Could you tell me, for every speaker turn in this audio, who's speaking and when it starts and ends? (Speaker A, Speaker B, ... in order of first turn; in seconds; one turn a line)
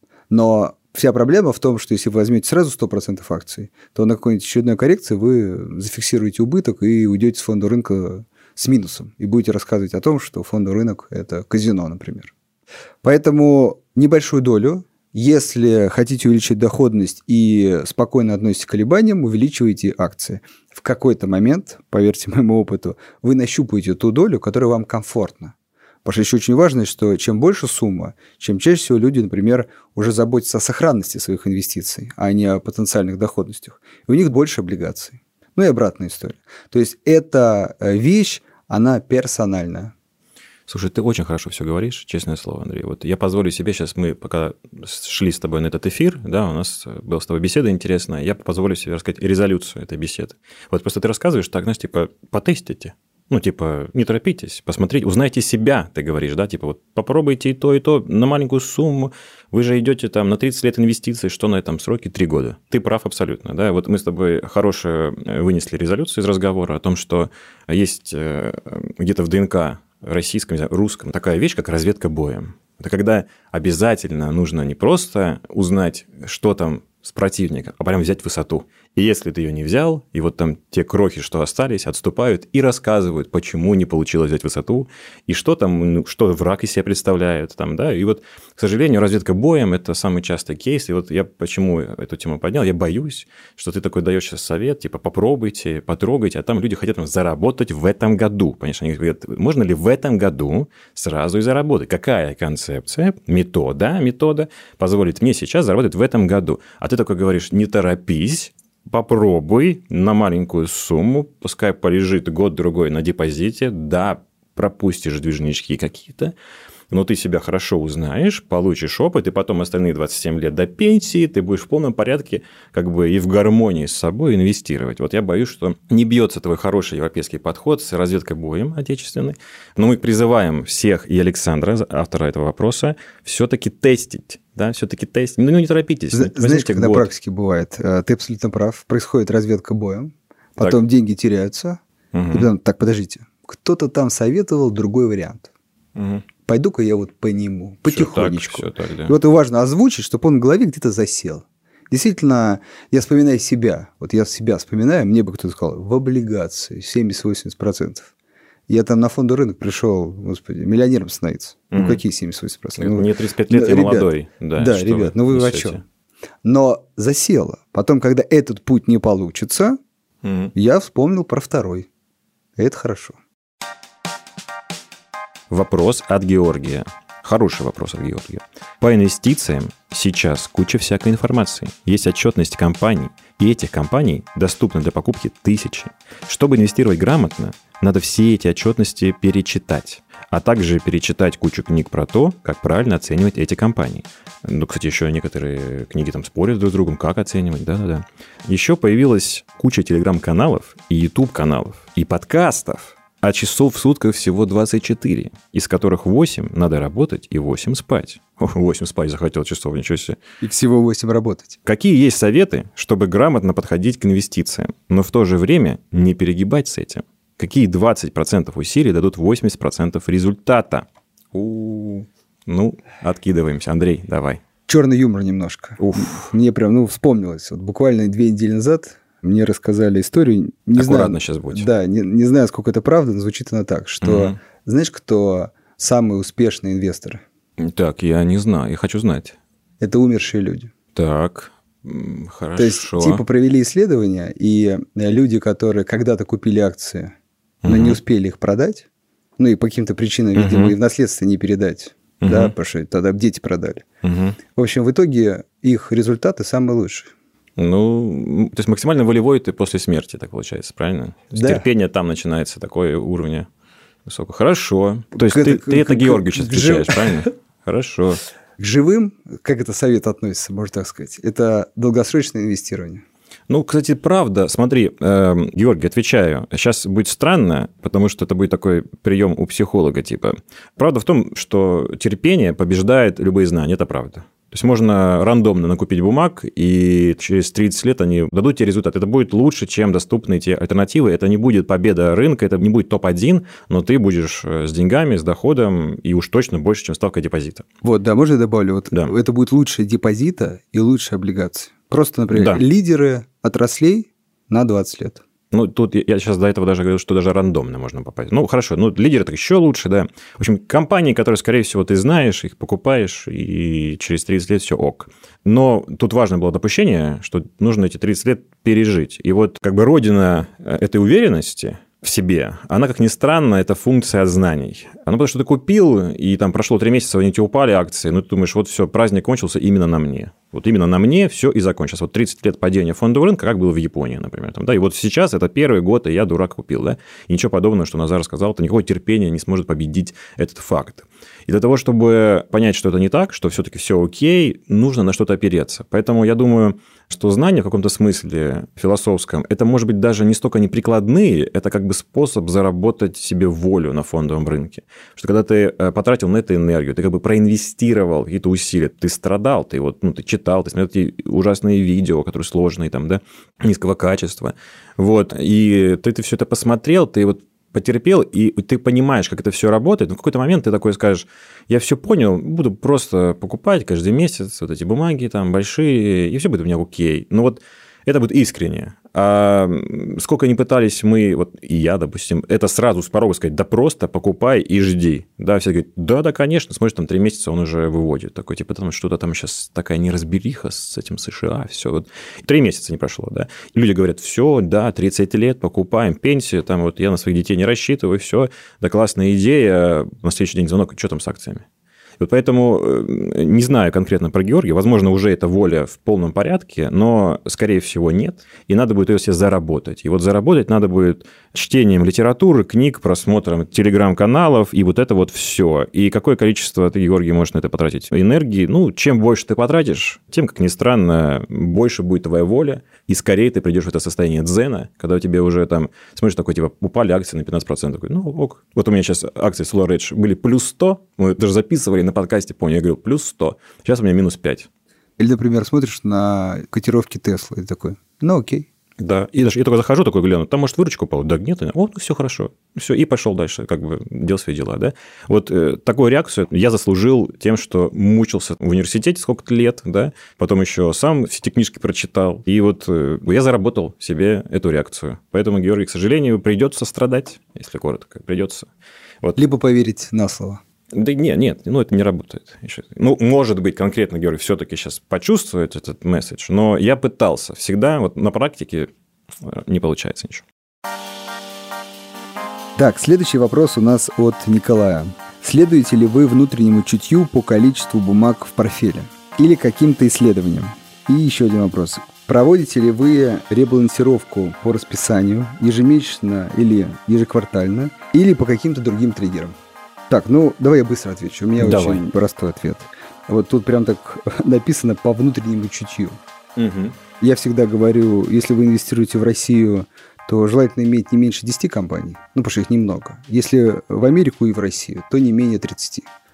Speaker A: 0.3-12.3
Speaker A: 13.0-25.5
Speaker A: 26.1-39.9
Speaker B: 40.7-116.3
Speaker B: 116.9-137.1
Speaker A: 136.1-141.8
Speaker B: 142.1-142.5
Speaker A: 142.3-145.5
Speaker B: 146.0-146.2
Speaker A: 146.5-158.1
Speaker B: 147.9-149.2
Speaker A: 158.7-165.8
Speaker B: 161.7-162.0
Speaker B: 162.8-165.8
Speaker A: 166.4-169.8
Speaker B: 170.2-170.5
Speaker A: 170.6-171.9
Speaker A: 172.6-173.2
Speaker B: 175.5-210.2
Speaker A: 210.4-211.6
Speaker B: 211.7-224.4
Speaker A: 224.7-237.2
Speaker B: 225.8-226.3
Speaker B: 230.8-231.7
Speaker B: 234.0-234.4
Speaker B: 237.6-239.4
Speaker A: 239.8-240.7
Speaker B: 240.9-243.2
Speaker A: 242.6-247.1
Speaker B: 247.6-248.0
Speaker A: 247.7-248.9
Speaker A: 249.4-253.8
Speaker B: 250.3-250.8
Speaker B: 252.2-252.5
Speaker B: 254.0-254.4
Speaker A: 254.6-257.1
Speaker B: 257.6-263.5
Speaker A: 261.3-261.6
Speaker B: 264.1-268.2
Speaker A: 265.1-267.3
Speaker A: 268.6-273.0
Speaker B: 273.5-297.7
Speaker A: 297.8-305.2
Speaker B: 302.3-302.6
Speaker B: 305.5-401.6
Speaker B: 402.2-434.7
Speaker A: 435.2-438.7
Speaker B: 439.0-458.7
Speaker A: 459.4-460.6
Speaker B: 460.9-468.9
Speaker B: 469.4-470.4
Speaker A: 472.8-489.6
Speaker A: 490.1-496.2
Speaker B: 491.6-492.0
Speaker B: 496.6-497.0
Speaker A: 497.2-506.1